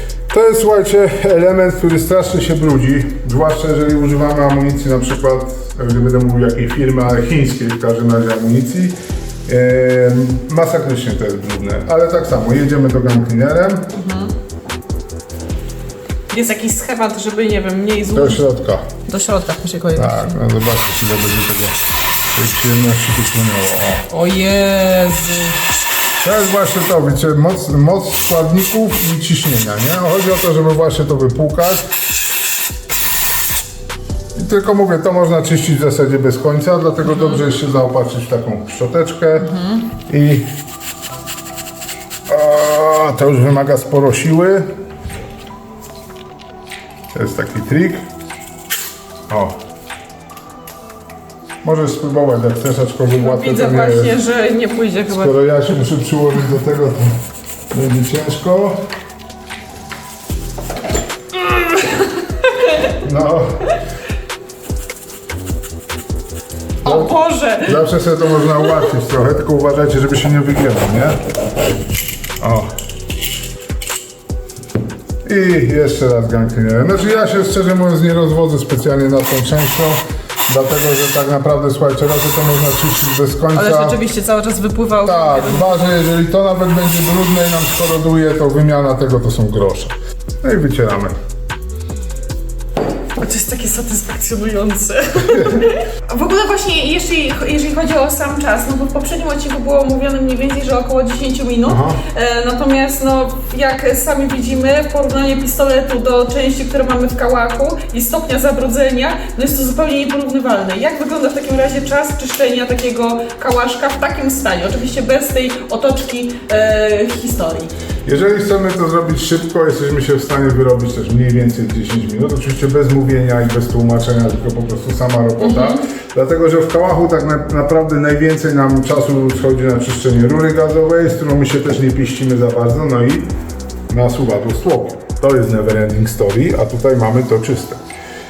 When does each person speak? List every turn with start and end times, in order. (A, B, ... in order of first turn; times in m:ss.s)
0:00.3-0:13.9 A
0:13.9-0:14.3 B
0:16.3-0:18.4 B
0:18.1-0:18.9 A
0:19.0-0:20.4 B
0:19.9-0:21.8 A
0:22.3-0:24.1 A
0:24.1-0:25.6 B
0:26.2-0:31.9 A
0:34.3-0:40.5 A
0:37.1-0:37.4 B
0:39.4-0:39.9 B
0:42.3-0:44.7 A
0:47.1-0:48.0 A
0:49.3-0:49.6 A
0:51.6-0:54.2 A
0:53.2-0:55.4 B
0:55.1-0:57.2 A
0:57.7-0:58.9 A
1:01.5-1:02.9 B
1:02.9-1:03.7 A
1:06.8-1:07.8 B
1:06.8-1:11.2 A
1:08.4-1:08.9 B
1:12.4-1:12.7 A
1:15.2-1:24.0 A
1:23.5-1:25.9 B
1:25.0-1:31.1 A
1:33.2-1:57.7 B
1:35.2-1:35.6 A
1:41.6-1:42.0 A
1:58.0-2:13.3 A
2:05.4-2:05.8 B
2:13.9-2:17.8 A